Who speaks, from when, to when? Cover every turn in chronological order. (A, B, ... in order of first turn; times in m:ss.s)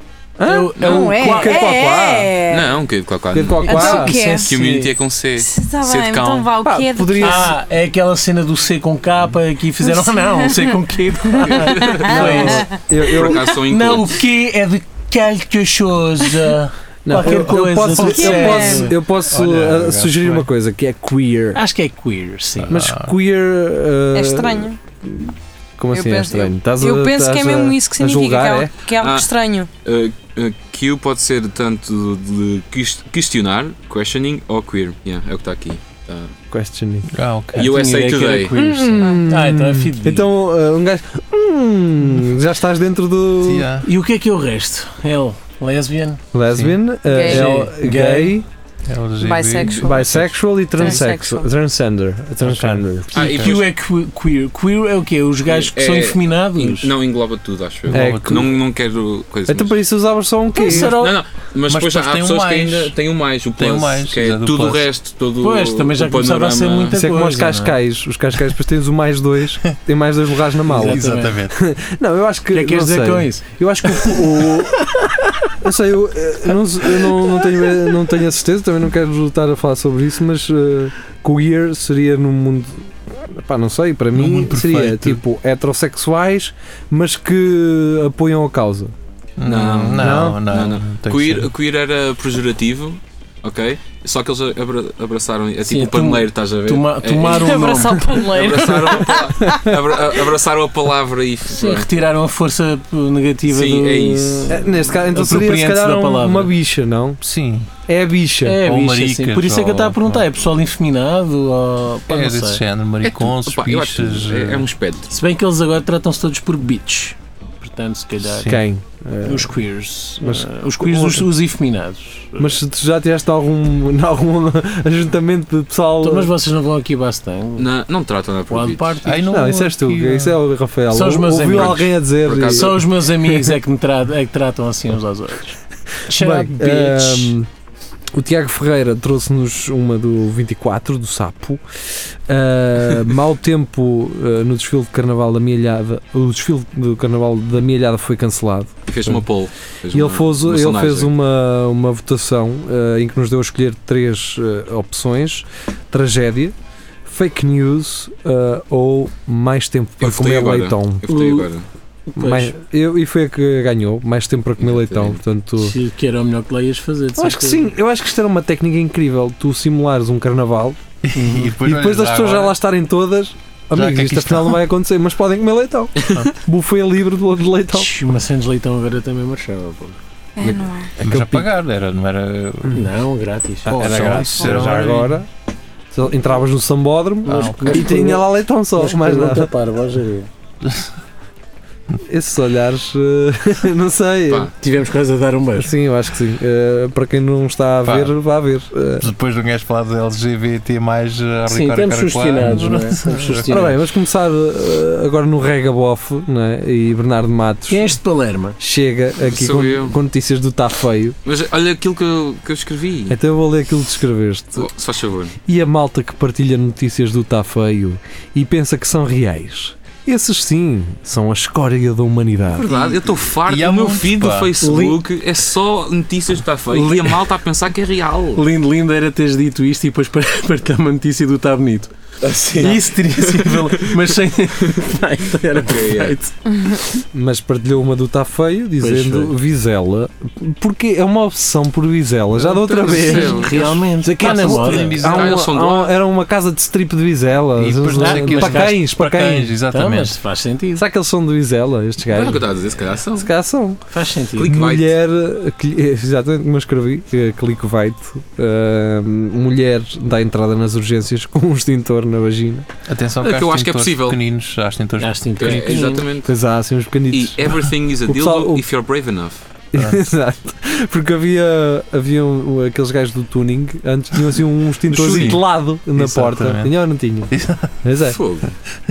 0:00.4-0:02.3 A
0:00.4-0:01.6 B
0:00.8-0:02.8 C
0:02.5-0:06.5 D
0:03.3-0:04.1 A
0:03.6-0:04.5 C
0:03.7-0:04.9 B
0:05.4-0:07.5 C
0:06.6-0:07.5 A
0:07.2-0:12.7 B
0:09.9-0:10.8 C
0:11.5-0:12.5 D
0:11.8-0:12.8 C
0:12.0-0:13.5 A
0:13.0-0:14.2 D
0:13.7-0:19.0 B
0:17.0-0:21.6 A
0:18.0-0:18.9 C
0:19.3-0:20.5 E
0:21.5-0:22.8 B
0:22.6-0:23.2 E
0:22.7-0:28.7 A
0:24.1-0:24.8 C
0:25.9-0:29.7 C
0:29.0-0:29.3 D
0:29.8-0:36.3 D
0:36.5-0:37.1 A
0:37.1-0:37.7 E
0:37.6-0:38.6 D
0:37.6-0:40.3 B
0:38.6-0:43.7 A
0:39.0-0:39.2 C
0:43.4-0:43.9 E
0:43.8-0:46.2 B
0:46.3-0:48.5 A
0:47.1-0:47.5 C
0:47.3-0:48.4 B
0:48.9-0:51.0 E
0:49.2-0:50.0 C
0:49.8-0:53.4 A
0:50.8-0:51.5 C
0:52.5-0:53.6 E
0:53.1-0:53.7 D
0:53.2-0:56.9 B
0:55.5-0:59.8 D
0:57.9-0:58.5 E
0:57.9-0:58.5 A
0:59.5-1:01.0 A
1:00.6-1:01.2 B
1:00.6-1:07.0 D
1:01.7-1:02.9 E
1:03.6-1:04.8 E
1:05.4-1:07.8 B
1:06.9-1:15.0 A
1:10.7-1:11.3 B
1:10.7-1:11.6 E
1:12.5-1:14.2 B
1:15.6-1:28.9 A
1:24.1-1:25.2 E
1:29.4-1:31.5 E
1:29.4-1:41.9 D
1:30.0-1:30.4 A
1:35.6-1:38.7 B
1:37.3-1:39.6 C
1:39.4-1:39.8 A
1:41.5-1:46.5 B
1:43.5-1:44.6 D
1:44.5-1:47.2 A
1:47.2-1:47.7 E
1:47.9-1:48.6 A
1:48.4-1:52.6 B
1:48.6-1:50.2 E
1:52.1-1:54.7 E
1:53.0-1:55.1 D
1:55.1-1:58.6 B
1:58.4-1:59.6 A
1:59.2-2:02.6 B
2:00.2-2:01.3 A
2:02.4-2:06.3 A
2:06.0-2:07.7 B
2:07.6-2:09.0 D
2:08.5-2:09.2 B
2:09.0-2:10.4 E
2:09.2-2:12.8 A
2:10.9-2:17.4 B
2:11.5-2:12.8 D
2:16.1-2:17.5 A
2:18.1-2:21.6 A
2:22.3-2:29.2 A
2:28.9-2:31.1 D
2:29.9-2:36.6 A
2:37.1-2:41.1 A
2:40.0-2:41.7 D
2:41.1-2:41.5 B
2:42.1-2:42.6 B
2:42.2-2:45.8 A
2:44.6-2:45.2 D
2:45.6-2:47.7 B
2:47.2-2:50.8 A
2:51.0-2:52.6 E
2:51.2-2:51.6 B
2:51.6-2:57.9 A
2:53.7-2:54.6 E
2:57.7-3:00.0 B
3:00.4-3:00.9 C
3:00.4-3:01.5 A
3:01.0-3:02.8 E
3:02.7-3:04.3 B
3:03.6-3:05.3 A
3:03.7-3:05.2 E
3:05.9-3:09.5 A
3:07.2-3:10.3 B
3:07.3-3:07.9 E
3:10.6-3:10.9 E
3:12.0-3:14.5 A
3:14.6-3:15.7 B
3:15.6-3:19.1 A
3:17.8-3:18.1 E
3:19.0-3:23.7 E
3:21.5-3:23.8 B
3:23.5-3:28.0 A
3:27.7-3:28.6 B
3:28.6-3:31.2 A
3:29.2-3:30.0 D
3:31.2-3:33.2 D
3:33.1-3:34.7 A
3:34.6-3:35.4 D
3:35.5-3:42.7 A
3:42.5-3:48.4 D
3:42.7-3:44.5 E
3:44.6-3:45.0 B
3:46.7-3:47.2 B
3:48.4-3:51.9 B
3:52.2-3:53.8 D
3:52.5-3:56.4 B
3:55.6-3:56.2 D
3:57.1-4:09.5 A
3:58.8-3:59.3 B
4:02.4-4:03.7 D
4:03.0-4:05.0 B
4:04.2-4:05.5 E
4:05.0-4:06.0 D
4:07.6-4:10.1 E
4:08.0-4:08.8 B
4:09.7-4:10.8 B
4:10.8-4:12.5 A
4:12.1-4:13.3 D
4:13.1-4:13.8 A
4:13.9-4:14.5 B
4:14.3-4:15.0 D
4:14.4-4:22.7 A
4:22.9-4:25.9 E
4:23.2-4:24.2 D
4:25.0-4:26.1 B
4:25.4-4:26.3 D
4:26.2-4:28.6 A
4:27.1-4:29.4 D
4:29.7-4:38.2 A
4:34.9-4:35.4 D
4:34.9-4:35.4 E
4:35.9-4:36.7 E
4:37.3-4:37.8 E
4:38.0-4:38.6 D